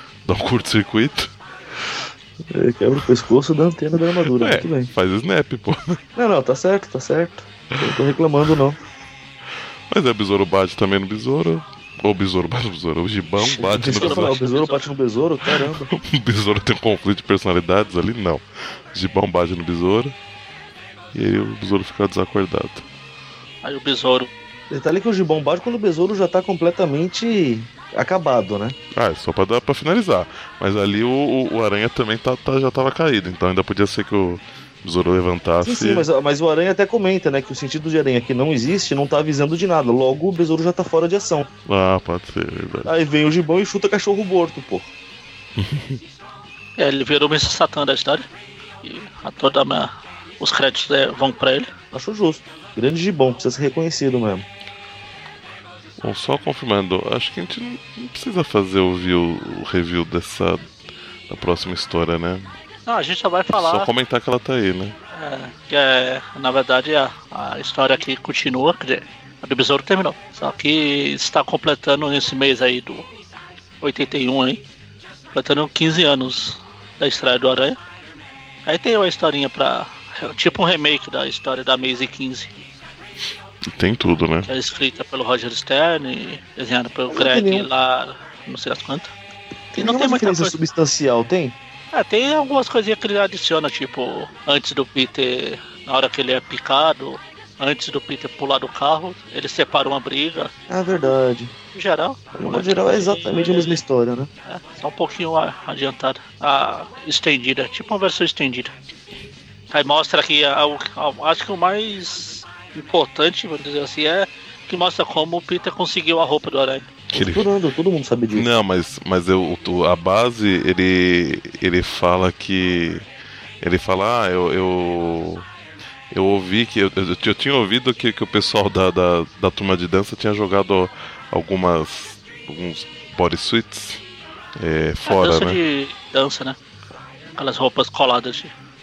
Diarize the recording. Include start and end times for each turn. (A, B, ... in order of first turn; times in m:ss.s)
0:00.2-0:01.3 A
0:02.5-0:04.9 B
0:04.3-0:06.0 A
0:06.2-0:08.8 B
0:09.9-0:14.4 A
0:13.5-0:14.9 C
0:13.6-0:15.9 B
0:15.9-0:20.1 A
0:21.1-0:22.8 A
0:23.6-0:24.3 C
0:24.7-0:28.8 B
0:28.9-0:36.1 A
0:35.6-0:41.5 B
0:41.7-0:42.9 A
0:42.8-0:44.9 B
0:45.6-0:46.0 A
0:46.8-0:48.3 C
0:48.8-0:51.7 C
0:51.9-0:54.5 B
0:56.0-1:00.6 A
1:01.3-1:02.5 A
1:02.9-1:03.9 C
1:03.6-1:05.0 A
1:05.1-1:13.1 C
1:13.8-1:14.6 C
1:15.3-1:17.8 C
1:18.7-1:22.5 C
1:23.7-1:24.5 A
1:24.5-1:29.1 C
1:27.1-1:27.7 B
1:29.7-1:31.6 B
1:29.8-1:30.6 C
1:31.9-1:40.5 C
1:40.7-1:41.5 B
1:41.7-1:43.8 C
1:42.4-1:44.3 B
1:44.5-1:48.7 C
1:49.7-1:56.9 C
1:57.1-1:57.5 A
1:57.1-1:58.5 B
1:58.3-2:03.1 A
2:03.6-2:05.5 A
2:06.1-2:14.0 A
2:14.6-2:15.6 A
2:15.1-2:16.6 C
2:17.4-2:18.5 C